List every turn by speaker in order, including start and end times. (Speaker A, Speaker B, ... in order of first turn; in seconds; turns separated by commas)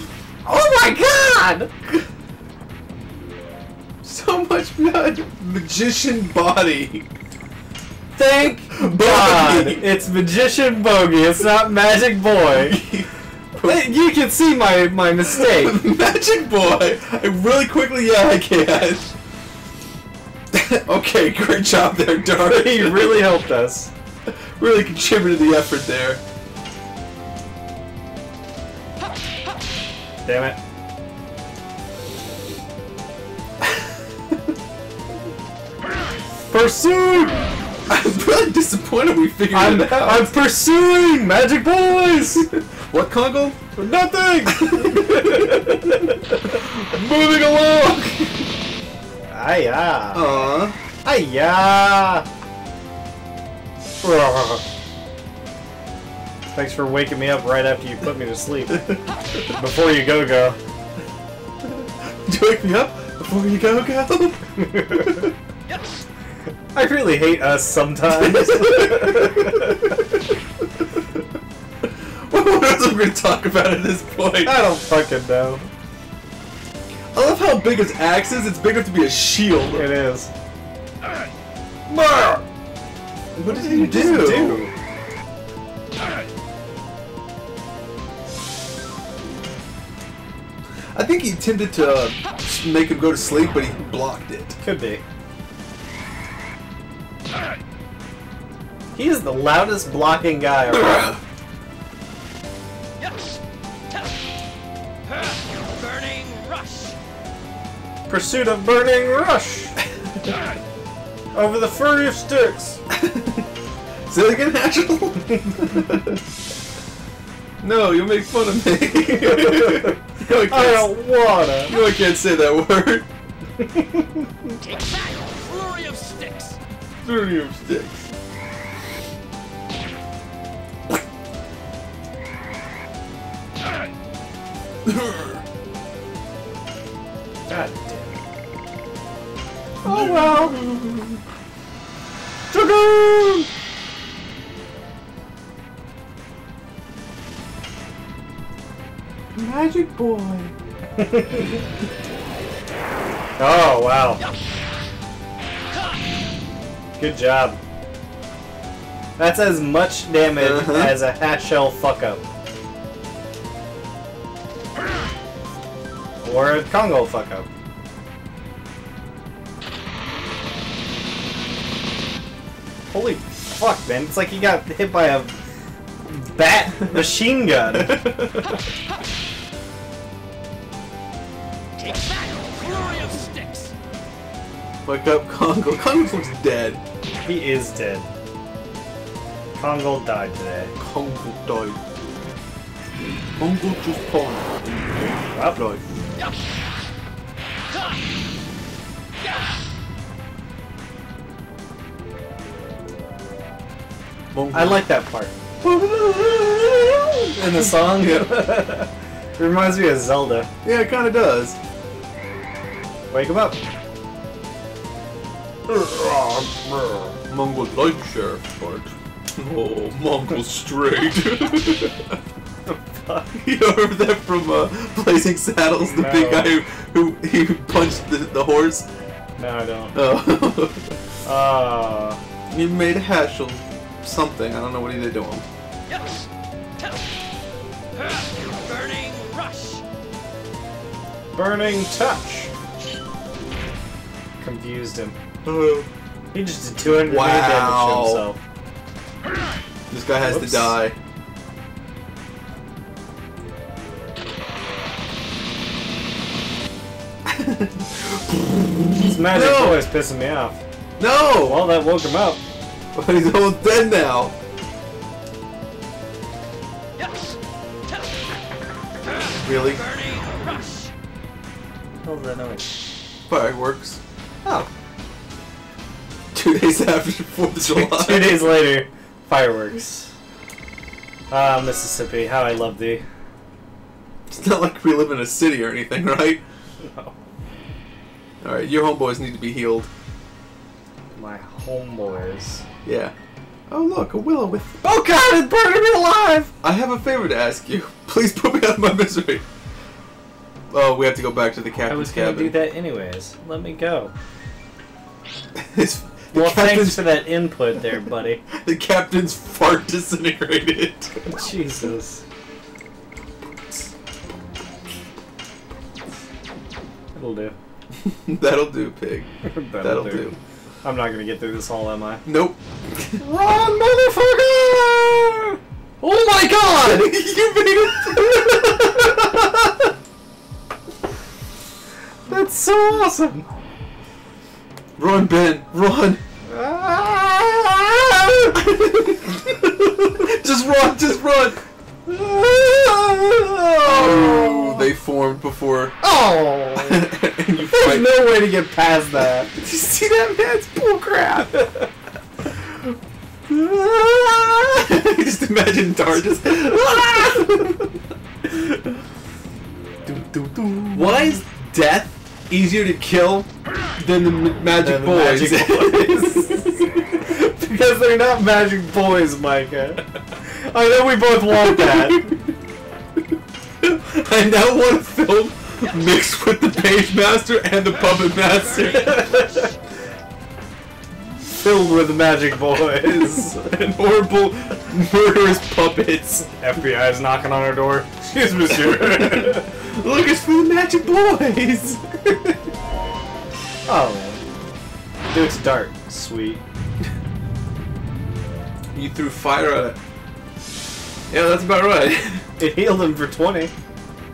Speaker A: 0.4-1.8, Speaker B: 4.0-7.1, Speaker A: 8.2-12.8, Speaker B: 8.7-9.9, Speaker B: 12.4-13.9, Speaker A: 13.6-15.8, Speaker B: 15.3-19.1, Speaker B: 20.5-23.3, Speaker A: 22.5-23.9, Speaker B: 24.3-26.2, Speaker A: 30.2-30.6, Speaker A: 36.5-37.5, Speaker B: 37.9-40.3, Speaker A: 39.5-42.5, Speaker B: 42.5-43.6, Speaker A: 43.8-46.1, Speaker B: 44.5-48.5, Speaker A: 49.3-50.4, Speaker B: 50.1-50.8, Speaker A: 51.0-52.3, Speaker A: 54.0-54.6, Speaker A: 56.5-60.6, Speaker B: 61.8-65.3, Speaker A: 64.8-65.2, Speaker A: 66.7-69.8, Speaker B: 68.1-70.0, Speaker B: 72.1-74.6, Speaker A: 74.5-75.7, Speaker B: 77.2-79.9, Speaker A: 79.7-80.3, Speaker A: 81.9-82.4, Speaker B: 83.4-84.7, Speaker A: 83.4-84.7, Speaker B: 90.9-94.6, Speaker A: 94.6-95.0, Speaker A: 98.9-101.2, Speaker B: 100.7-101.2, Speaker C: 105.1-107.0, Speaker A: 108.1-109.8, Speaker A: 111.3-112.8, Speaker B: 112.9-113.5, Speaker B: 114.1-116.2, Speaker B: 117.6-121.0, Speaker A: 119.1-120.0, Speaker A: 120.5-121.7, Speaker B: 121.7-123.1, Speaker A: 123.6-124.3, Speaker C: 124.6-126.6, Speaker B: 127.0-128.1, Speaker B: 134.9-135.4, Speaker A: 137.5-138.2, Speaker B: 139.8-141.2, Speaker A: 139.8-140.6, Speaker A: 142.5-143.5, Speaker B: 149.3-150.5, Speaker A: 151.0-151.6, Speaker A: 153.4-154.2, Speaker A: 157.0-157.6, Speaker A: 159.2-162.2, Speaker B: 160.3-161.0, Speaker A: 166.2-167.5, Speaker A: 172.9-175.4, Speaker A: 176.0-178.0, Speaker B: 177.7-178.4, Speaker C: 181.8-183.7, Speaker B: 184.8-186.8, Speaker A: 187.2-188.1, Speaker A: 189.6-190.7, Speaker B: 190.8-191.8, Speaker B: 193.4-195.8, Speaker A: 195.3-195.6, Speaker B: 204.3-204.8, Speaker A: 204.5-205.3, Speaker B: 205.6-208.5, Speaker A: 207.3-210.5, Speaker B: 210.6-211.6, Speaker A: 213.1-213.6, Speaker A: 215.7-217.1, Speaker B: 217.3-222.2, Speaker A: 222.7-223.3, Speaker B: 223.4-228.9, Speaker A: 225.9-226.6, Speaker A: 229.4-230.0, Speaker B: 229.9-230.9, Speaker A: 231.2-232.2, Speaker B: 232.5-235.5, Speaker C: 237.9-239.8, Speaker A: 241.3-242.5, Speaker A: 244.4-245.2, Speaker B: 245.4-245.9, Speaker A: 246.3-248.4, Speaker B: 246.8-248.2, Speaker B: 249.9-250.9, Speaker A: 250.2-250.8, Speaker B: 257.2-259.9, Speaker A: 259.1-260.6, Speaker B: 261.0-261.7, Speaker A: 261.4-262.4, Speaker B: 262.9-264.4, Speaker B: 269.4-269.8, Speaker C: 269.5-270.9, Speaker A: 272.0-272.7, Speaker B: 273.3-274.0, Speaker B: 276.3-278.5, Speaker A: 277.6-280.1, Speaker A: 281.3-283.0, Speaker B: 284.3-286.4, Speaker A: 286.8-287.1, Speaker B: 288.4-289.9, Speaker A: 291.1-292.6, Speaker B: 292.9-293.1, Speaker B: 293.7-294.8, Speaker A: 294.8-296.5, Speaker B: 296.6-299.4, Speaker B: 300.7-302.6, Speaker A: 301.9-304.1, Speaker B: 305.6-307.2, Speaker A: 306.3-308.4, Speaker B: 308.5-311.1, Speaker A: 311.3-312.2, Speaker A: 317.1-317.6, Speaker B: 318.1-320.4, Speaker A: 319.4-322.2, Speaker B: 322.2-323.2, Speaker A: 323.2-325.6, Speaker B: 326.0-329.7, Speaker A: 326.7-327.0, Speaker A: 332.3-333.4, Speaker B: 335.0-336.2, Speaker A: 336.5-338.6, Speaker B: 338.6-341.6, Speaker A: 342.1-344.9, Speaker B: 343.8-346.0, Speaker A: 346.0-347.1, Speaker B: 346.8-348.2, Speaker A: 347.7-349.5, Speaker B: 349.6-351.7, Speaker B: 353.6-357.9, Speaker A: 360.1-361.4, Speaker B: 360.9-366.9, Speaker A: 364.8-372.3, Speaker B: 371.7-372.4, Speaker B: 373.8-379.4, Speaker C: 378.0-379.7, Speaker A: 381.5-383.6, Speaker B: 383.0-386.5, Speaker A: 386.6-389.7, Speaker B: 388.7-392.6, Speaker A: 393.9-394.4, Speaker A: 395.3-396.6, Speaker B: 398.9-400.0, Speaker B: 401.3-402.4, Speaker A: 402.6-403.7